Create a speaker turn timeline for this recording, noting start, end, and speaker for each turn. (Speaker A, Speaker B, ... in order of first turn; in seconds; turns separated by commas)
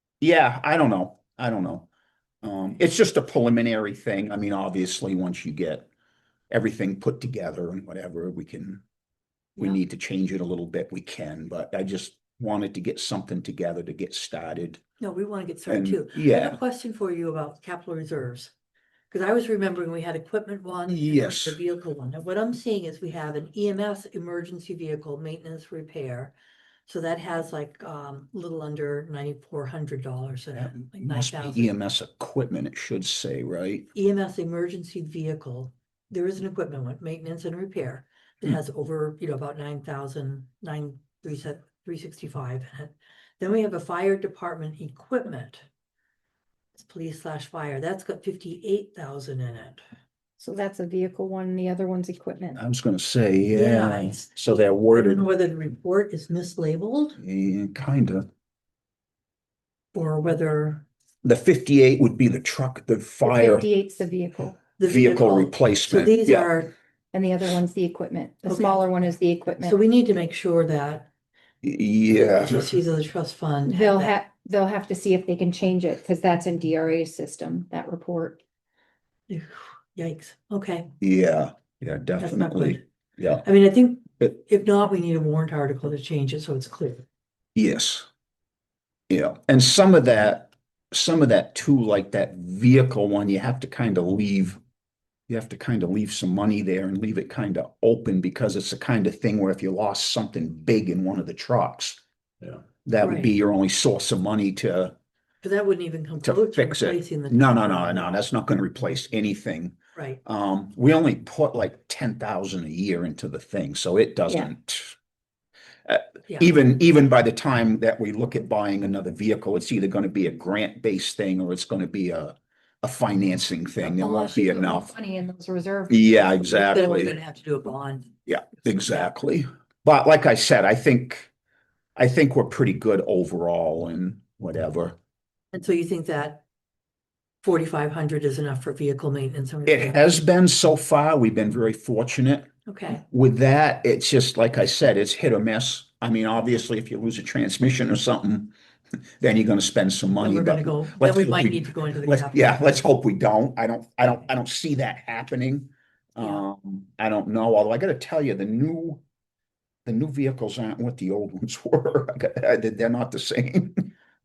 Speaker A: 0.2-1.9, Speaker A: 2.4-5.9, Speaker A: 6.5-8.8, Speaker A: 9.6-14.8, Speaker B: 15.0-18.5, Speaker A: 15.7-16.6, Speaker B: 19.1-26.3, Speaker A: 20.9-21.6, Speaker B: 26.9-31.7, Speaker A: 30.6-33.9, Speaker B: 33.9-45.6, Speaker B: 46.7-49.8, Speaker C: 50.4-52.6, Speaker A: 52.5-55.2, Speaker B: 53.5-57.2, Speaker A: 57.2-58.3, Speaker B: 59.9-60.8, Speaker A: 61.2-63.7, Speaker C: 63.2-64.6, Speaker B: 64.8-66.7, Speaker A: 64.8-66.5, Speaker C: 67.1-69.8, Speaker B: 68.5-68.8, Speaker B: 69.6-71.1, Speaker A: 71.6-72.7, Speaker B: 72.1-74.1, Speaker C: 73.7-78.4, Speaker B: 79.3-80.9, Speaker A: 81.0-83.4, Speaker B: 82.2-82.8, Speaker B: 83.4-87.0, Speaker A: 87.5-88.0, Speaker A: 89.1-94.6, Speaker A: 95.3-102.0, Speaker A: 102.8-104.9, Speaker B: 103.0-103.3, Speaker B: 105.4-108.2, Speaker A: 106.2-114.9, Speaker A: 115.9-124.9, Speaker C: 123.9-126.4, Speaker A: 125.9-127.2, Speaker B: 126.5-128.1, Speaker A: 128.3-131.3, Speaker A: 132.0-135.0, Speaker B: 135.5-136.4, Speaker B: 137.4-140.0, Speaker A: 139.7-148.5, Speaker B: 142.7-143.0, Speaker A: 149.2-159.0, Speaker B: 150.2-152.8, Speaker A: 159.8-163.9